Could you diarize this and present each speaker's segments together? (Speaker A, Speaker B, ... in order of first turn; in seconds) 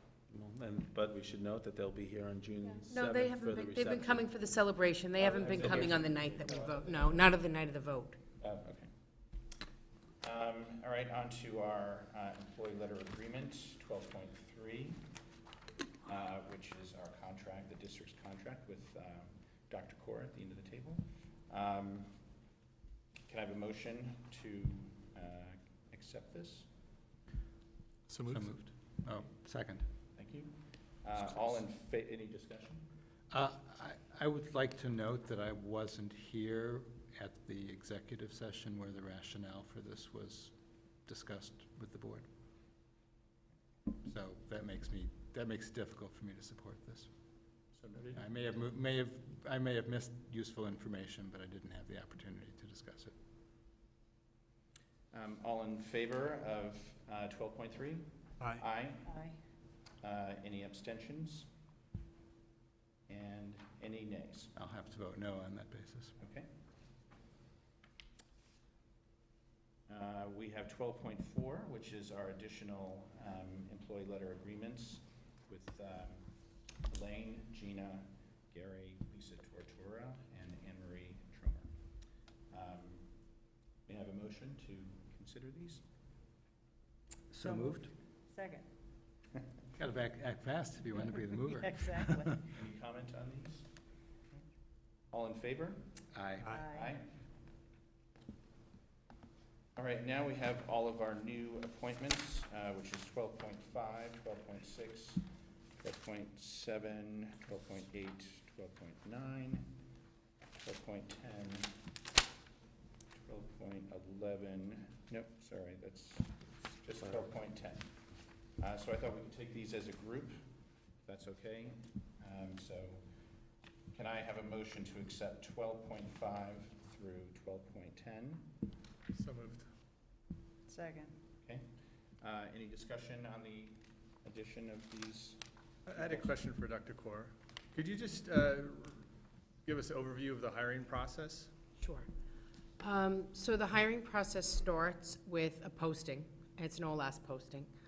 Speaker A: 0.3-4.3, 5.5-6.0
Speaker B: 2.8-8.2, 141.8-142.1, 142.8-147.7
Speaker C: 5.2-7.3, 8.4-8.9, 10.2-15.0, 16.0-22.2, 23.3-26.7, 30.1-32.8, 47.7-48.2, 55.1-59.2, 60.0-61.5, 63.1-64.5, 66.2-66.5, 69.9-76.3, 76.8-81.8, 82.5-83.1, 83.8-85.8, 92.5-93.7, 95.1-95.9, 96.7-97.1, 99.8-105.2, 105.8-109.7, 110.6-111.7, 113.2-117.9, 118.6-120.4, 121.0-123.0, 123.9-128.5, 131.4-131.7, 132.2-136.3
Speaker D: 28.1-28.6, 129.1-129.7, 135.9-139.1, 139.6-141.5
Speaker E: 28.3-29.9, 33.3-40.5, 41.0-42.3, 44.0-47.1, 48.1-53.1, 64.5-66.1, 87.3-87.9, 89.7-92.4, 96.1-96.6
Speaker F: 59.0-59.4, 87.4-88.7, 91.6-92.3, 96.5-96.9, 130.7-131.2